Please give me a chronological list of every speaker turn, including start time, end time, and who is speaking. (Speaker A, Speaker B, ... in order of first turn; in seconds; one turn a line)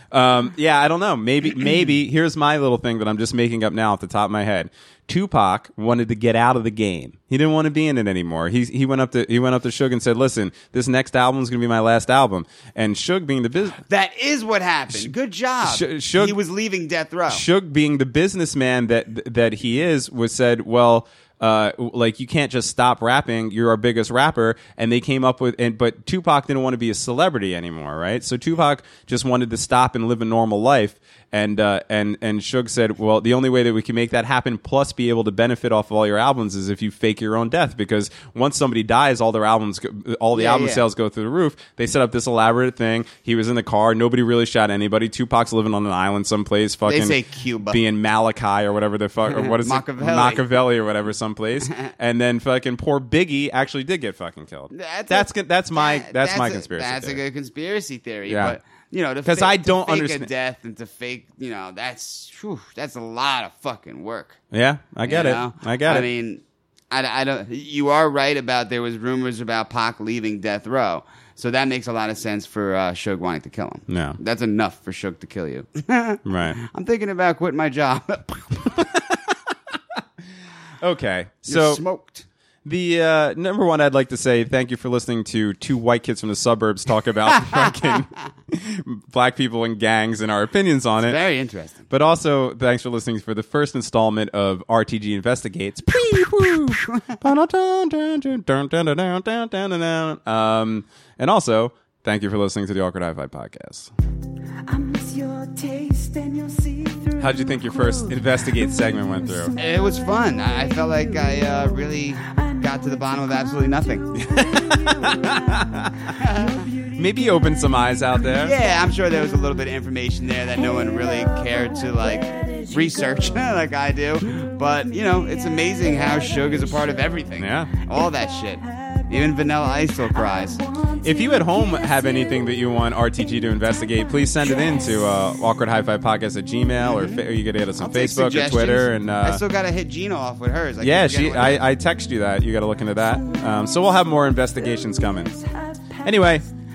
Speaker A: 0.1-13.8
Speaker B: 13.8-17.4
Speaker A: 15.6-16.4
Speaker A: 17.3-57.2
Speaker B: 40.3-40.8
Speaker B: 46.8-47.8
Speaker B: 49.2-50.5
Speaker B: 54.7-64.4
Speaker A: 58.3-58.6
Speaker A: 59.2-60.3
Speaker A: 64.5-66.1
Speaker B: 65.0-78.9
Speaker A: 73.9-74.2
Speaker A: 76.2-76.6
Speaker A: 80.8-81.8
Speaker B: 81.5-82.2
Speaker A: 82.6-91.2
Speaker B: 87.4-88.0
Speaker B: 91.0-91.9
Speaker A: 91.9-103.9
Speaker B: 96.7-97.2
Speaker C: 104.7-111.7
Speaker A: 107.2-109.5
Speaker B: 109.6-114.4
Speaker C: 112.2-119.2
Speaker A: 115.2-116.1
Speaker B: 116.1-116.6
Speaker A: 116.9-118.6
Speaker B: 118.3-130.6
Speaker C: 120.5-123.5
Speaker C: 124.4-127.2
Speaker A: 127.4-127.7
Speaker C: 128.6-132.7
Speaker A: 131.0-139.4
Speaker C: 133.4-135.0
Speaker B: 136.8-137.1
Speaker B: 137.8-141.7
Speaker A: 140.8-145.3
Speaker C: 143.1-146.4
Speaker A: 146.0-146.4